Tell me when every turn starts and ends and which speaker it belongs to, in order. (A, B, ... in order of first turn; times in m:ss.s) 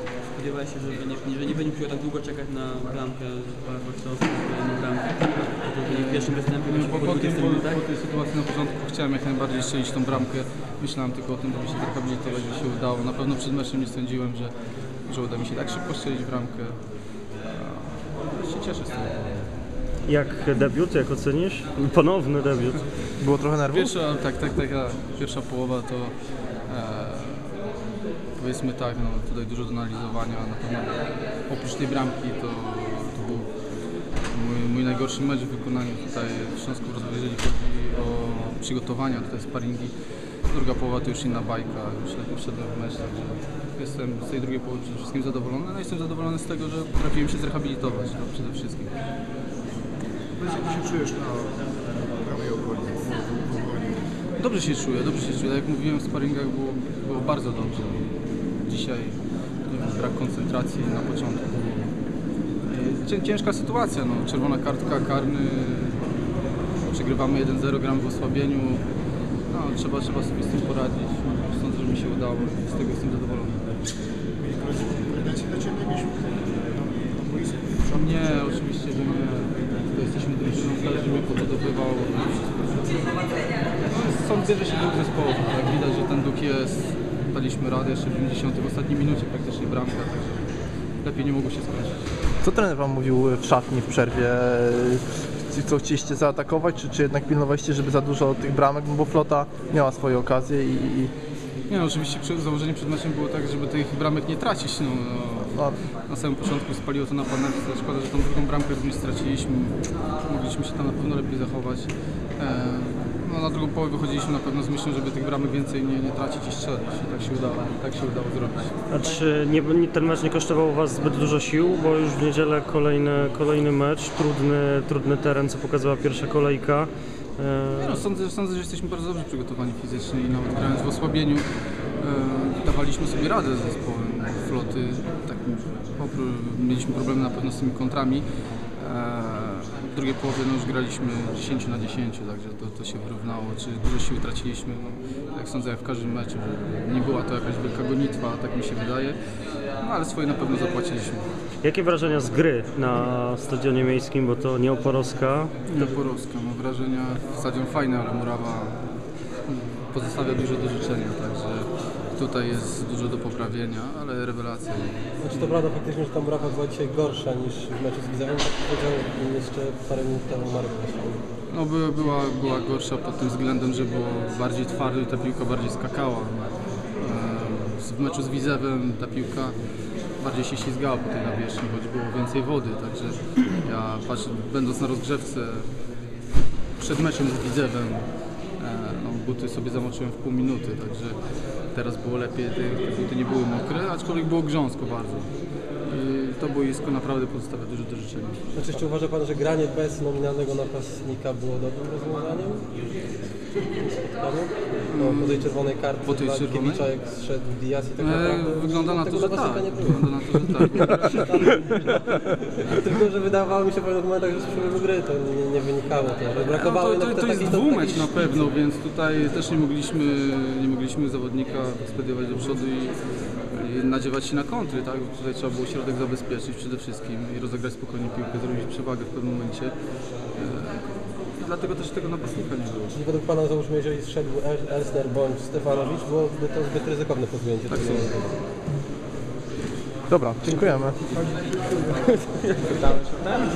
0:00.3-0:07.8 A
0:05.9-0:19.5 B
0:20.0-0:22.9 C
0:23.2-0:23.9 D
0:23.7-0:27.7 B
0:28.3-0:33.5 B
0:34.2-0:48.9 B
0:50.4-0:54.0 E
0:54.3-1:06.1 B
1:06.8-1:08.9 B
1:09.4-1:13.8 B
1:14.4-1:18.2 E
1:17.9-1:32.1 B
1:32.4-1:41.1 D
1:41.7-1:58.8 B
1:58.9-2:08.0 C
2:07.8-2:31.3 B
2:31.6-2:35.5 C
2:35.7-2:45.6 B
2:45.2-2:51.2 F
2:51.5-3:06.1 B
3:06.8-3:18.5 B
3:18.5-3:38.3 F
3:24.9-3:26.9 B
3:28.0-3:31.5 B
3:36.5-3:53.0 B
3:52.9-3:58.3 F
3:57.7-3:58.1 B
4:00.1-4:01.0 D
4:00.9-4:03.2 F